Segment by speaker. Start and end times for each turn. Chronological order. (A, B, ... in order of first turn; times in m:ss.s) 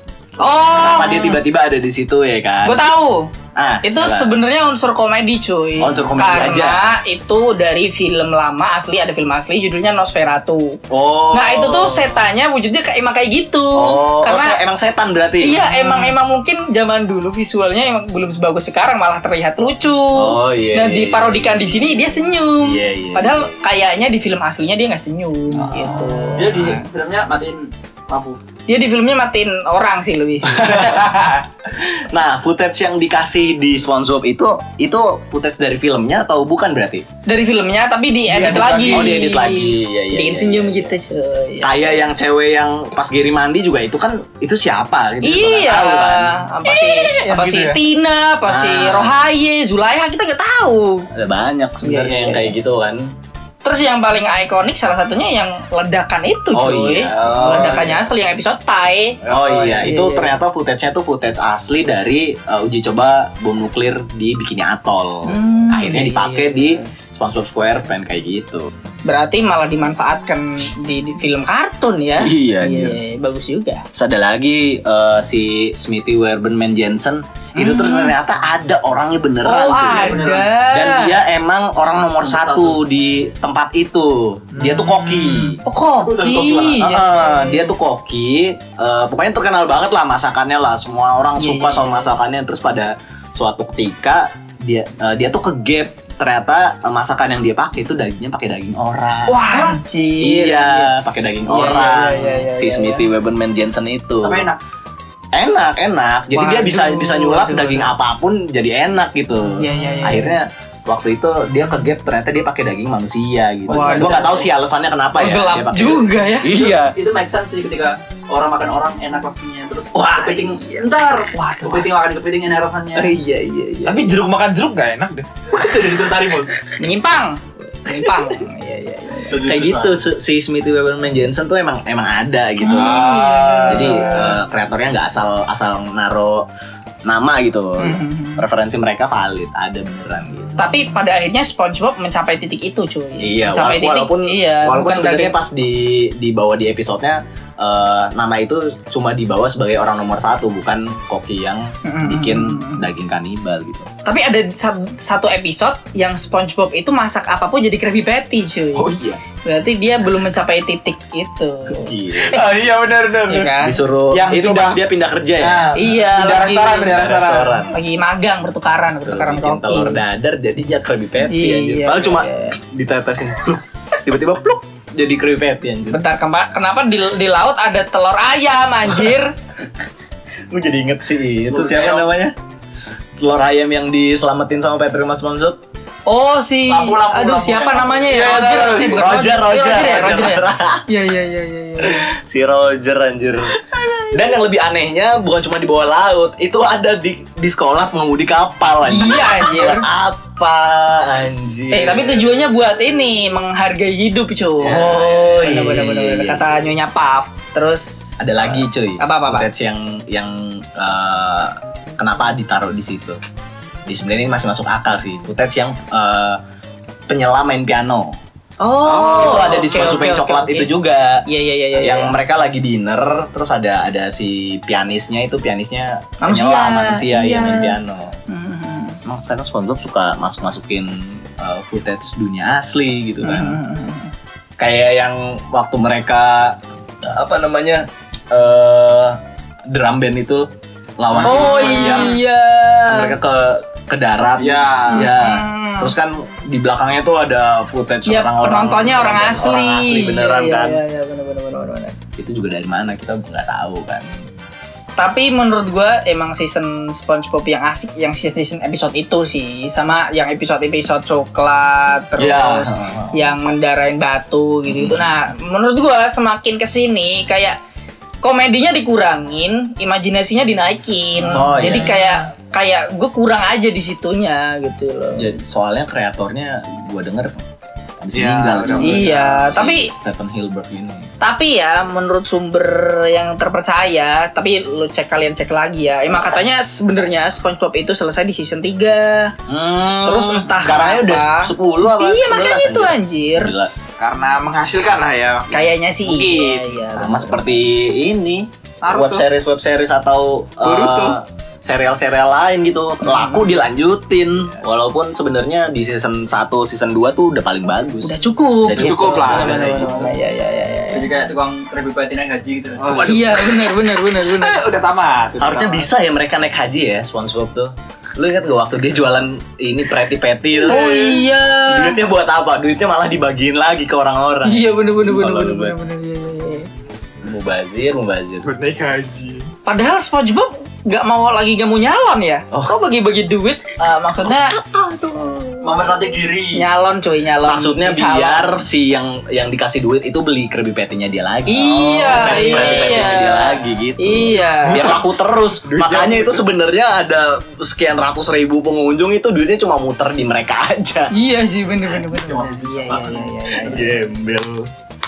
0:00.4-0:01.4 A
0:00.7-0:02.9 B
0:02.6-0:03.3 A
0:03.6-0:04.4 B
0:03.8-0:10.8 A
0:05.8-0:06.9 B
0:10.9-0:12.2 B
0:11.3-0:14.6 A
0:13.8-0:15.6 B
0:15.4-0:26.8 A
0:20.1-0:23.7 B
0:26.0-0:28.4 C
0:28.7-0:30.9 A
0:30.4-0:37.1 B
0:37.3-0:42.0 A
0:38.3-0:39.1 D
0:38.5-0:41.0 B
0:41.6-0:46.3 B
0:45.2-0:51.1 A
0:46.7-0:47.8 D
0:48.5-0:49.1 B
0:51.1-0:53.1 B
0:51.8-0:52.5 A
0:53.6-0:59.2 A
0:56.5-0:58.0 B
0:57.1-0:58.0 D
0:59.2-1:00.0 D
0:59.3-1:08.7 B
0:59.8-1:00.3 A
1:05.2-1:06.8 A
1:09.0-1:13.8 A
1:12.2-1:13.0 B
1:13.9-1:25.6 B
1:17.6-1:18.1 A
1:19.4-1:21.2 A
1:19.9-1:20.5 C
1:22.2-1:22.8 C
1:24.6-1:25.6 D
1:25.6-1:27.7 A
1:26.0-1:26.9 C
1:26.8-1:44.5 B
1:31.4-1:32.1 A
1:39.3-1:40.9 A
1:41.4-1:43.1 A
1:44.2-1:44.6 C
1:45.3-1:57.0 B
1:46.3-1:47.9 A
1:49.6-1:50.4 A
1:53.7-1:54.5 A
1:53.7-1:54.4 C
1:53.8-1:54.2 D
1:55.2-1:56.5 A
1:56.5-2:03.2 C
1:59.9-2:00.9 B
2:01.3-2:01.9 A
2:03.0-2:04.3 B
2:03.8-2:05.3 D
2:05.5-2:06.6 C
2:06.8-2:09.4 A
2:09.3-2:10.1 C
2:09.4-2:13.1 B
2:12.6-2:14.4 A
2:12.7-2:14.3 D
2:13.6-2:16.5 B
2:17.0-2:20.6 B
2:17.8-2:18.4 A
2:20.6-2:25.4 A
2:23.2-2:33.9 B
2:31.8-2:32.9 A
2:34.1-2:41.9 A
2:38.8-2:39.2 B
2:41.7-2:42.4 B
2:42.2-2:43.5 D
2:43.3-2:43.8 A
2:43.6-2:47.8 B
2:44.1-2:44.8 D
2:45.4-2:47.6 D
2:45.8-2:47.0 A
2:47.7-2:50.0 A
2:49.0-2:56.0 B
2:51.2-2:52.6 A
2:55.9-2:59.4 A
3:00.5-3:02.4 B
3:01.5-3:02.1 C
3:03.2-3:05.6 B
3:06.1-3:12.1 A
3:06.7-3:10.9 B
3:08.0-3:09.2 D
3:11.8-3:13.6 B
3:14.1-3:22.3 B
3:18.8-3:19.9 A
3:21.7-3:29.5 A
3:24.6-3:26.6 B
3:28.2-3:33.2 B
3:33.9-3:36.4 B
3:37.1-3:38.2 B
3:38.6-3:40.7 A
3:38.9-3:40.1 D
3:38.9-3:41.3 B
3:41.3-3:42.2 A
3:41.8-3:48.2 B
3:46.2-3:47.8 A
3:48.3-3:49.0 A
3:49.0-3:53.6 B
3:53.2-3:54.1 A
3:54.6-4:02.2 B
4:01.1-4:02.1 D
4:01.2-4:03.2 A
4:02.9-4:10.8 B
4:04.4-4:04.7 C
4:04.4-4:05.1 D
4:04.9-4:05.9 A
4:08.0-4:12.0 A
4:12.2-4:14.2 B
4:15.0-4:27.6 A
4:22.2-4:23.3 B
4:24.7-4:25.0 B
4:28.2-4:35.4 A
4:31.2-4:32.1 D
4:31.3-4:32.0 B
4:35.2-4:37.4 B
4:38.0-4:41.1 B
4:38.1-4:39.1 D
4:38.8-4:39.9 A
4:41.2-4:49.4 A
4:49.5-4:53.7 B
4:50.0-4:53.5 A
4:54.0-4:55.5 D
4:55.5-4:57.6 A
4:56.1-4:56.8 D
4:56.9-5:10.1 B
4:58.8-4:59.2 D
5:00.6-5:01.2 D
5:03.0-5:03.6 A
5:08.0-5:11.3 A
5:08.7-5:09.9 D
5:09.7-5:10.1 C
5:10.9-5:13.1 C
5:12.8-5:15.9 D
5:12.9-5:13.3 B
5:13.0-5:14.6 A
5:15.4-5:25.8 B
5:20.6-5:22.0 A
5:24.4-5:26.7 A
5:27.2-5:28.5 B
5:28.4-5:29.5 D
5:29.6-5:38.6 A
5:35.6-5:36.7 C
5:37.4-5:51.1 B
5:41.5-5:44.9 A
5:42.2-5:43.0 D
5:44.6-5:45.1 D
5:45.6-5:46.4 D
5:51.1-5:54.1 A
5:52.0-5:54.0 C
5:53.7-5:54.7 B